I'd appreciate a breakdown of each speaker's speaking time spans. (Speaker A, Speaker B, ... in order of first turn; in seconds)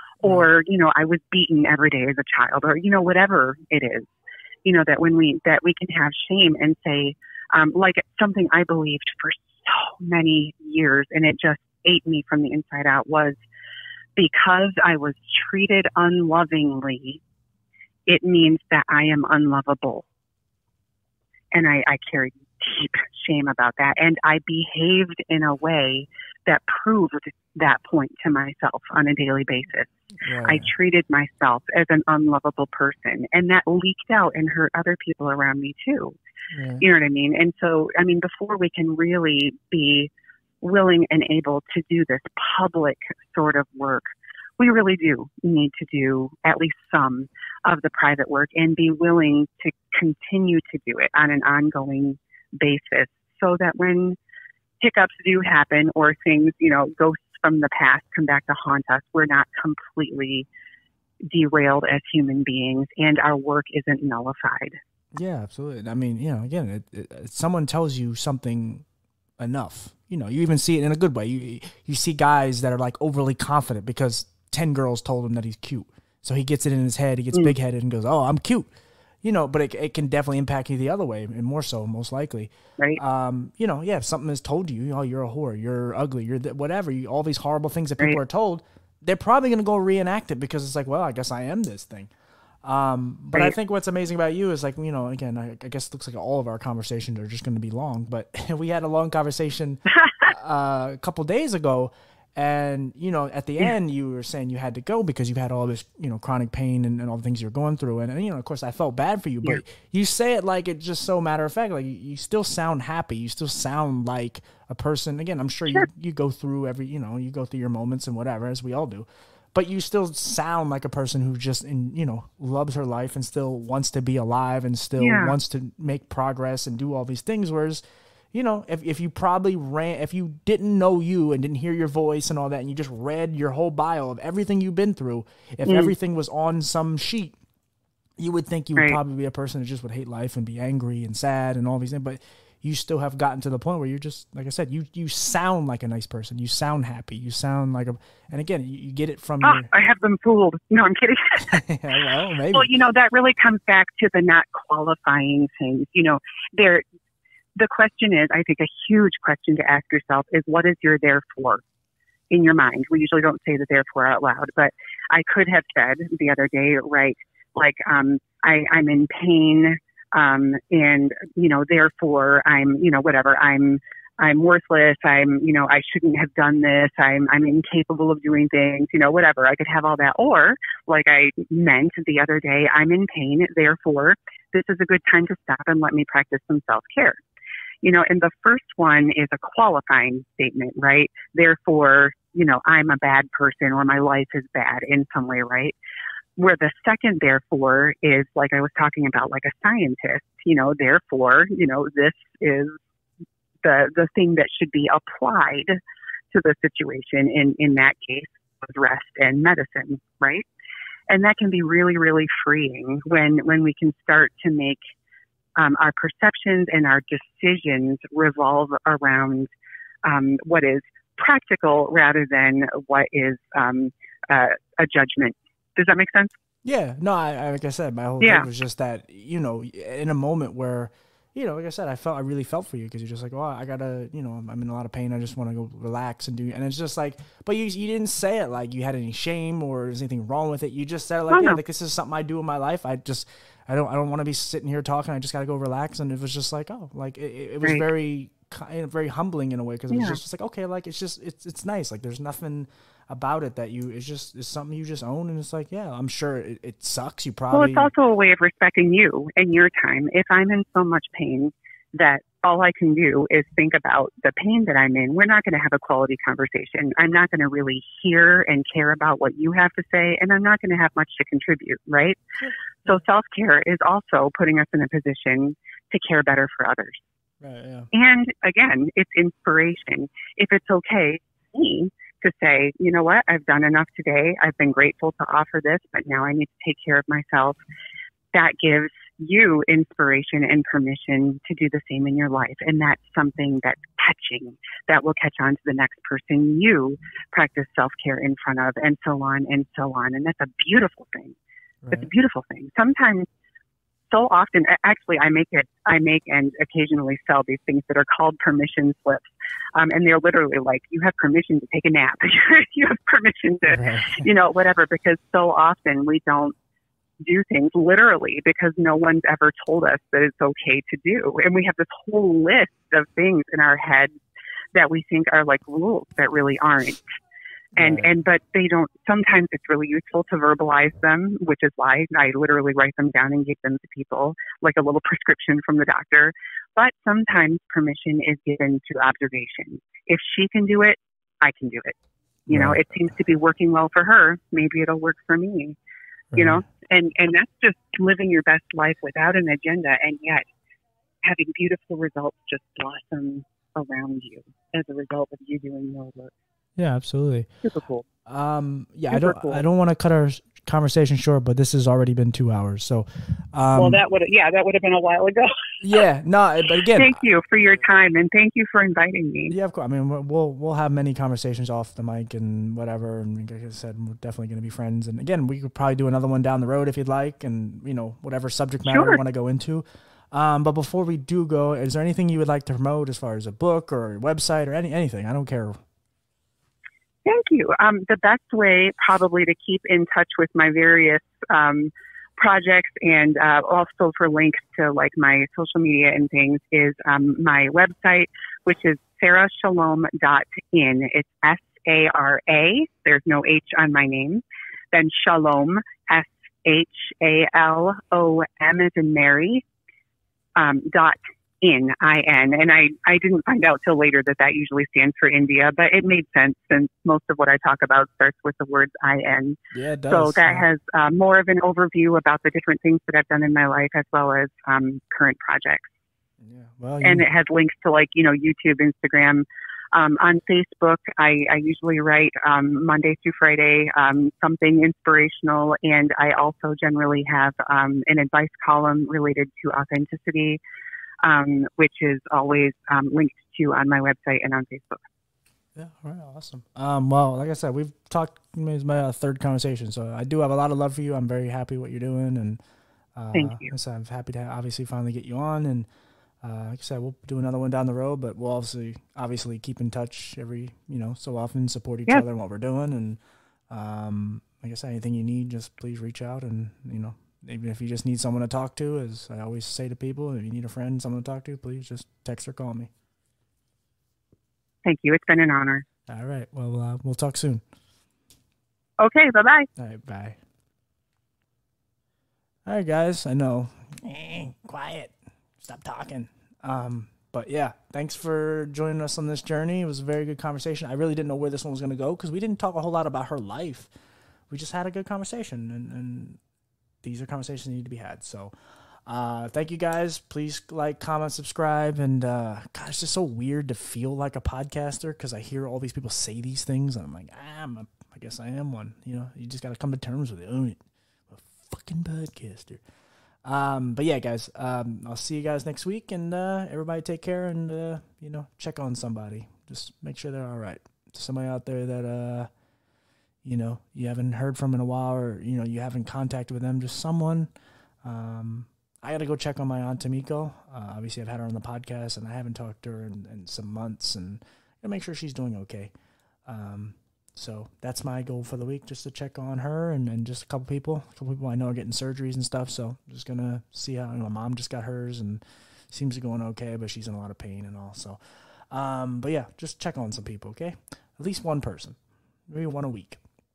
Speaker A: 0.2-4.1, 4.7-13.4, 14.2-17.2, 18.1-20.1, 21.5-29.9, 30.4-36.2, 36.8-40.1, 40.6-44.0, 44.6-54.2, 54.8-60.5, 61.2-64.8, 125.0-125.3, 135.7-135.9, 149.4-151.6, 152.5-156.8, 157.6-161.6, 162.3-187.2, 187.8-195.8, 196.4-202.8, 203.6-205.8, 206.3-210.5, 211.1-214.8, 215.6-219.5, 220.0-226.3, 228.2-228.5, 241.3-241.6, 249.9-250.2, 257.5-272.2, 272.9-277.0, 277.9-287.6, 288.3-301.4, 301.9-303.3, 304.1-316.6, 317.2-324.1, 324.7-327.0, 327.8-342.0, 342.5-345.8, 346.4-350.5, 351.2-356.3, 357.6-358.1, 359.1-359.6, 363.7-366.0, 366.9-369.5, 378.9-379.2, 387.2-409.6, 410.6-425.9, 427.0-440.6, 441.2-445.0, 453.3-453.7, 474.8-475.9, 479.0-479.7
Speaker B: 30.2-30.7, 36.5-36.9, 65.2-68.8, 69.4-78.7, 79.2-92.1, 92.6-127.8, 128.3-137.4, 138.2-149.7, 151.4-152.7, 226.6-257.9, 272.4-273.0, 277.4-277.9, 301.8-302.1, 313.7-314.3, 327.8-328.1, 342.5-342.9, 346.3-346.6, 356.8-357.5, 358.3-364.0, 365.8-367.2, 369.5-385.8, 419.7-420.7, 426.4-427.3, 445.8-452.6, 453.2-455.9, 456.4-463.2, 463.7-472.9, 476.1-477.6, 479.8-480.4, 482.7-493.9, 494.5-496.4, 497.0-498.5, 499.1-510.8, 511.3-512.8, 513.5-522.5, 523.4-527.5, 528.0-535.9, 536.5-548.2, 548.7-552.0, 552.5-553.2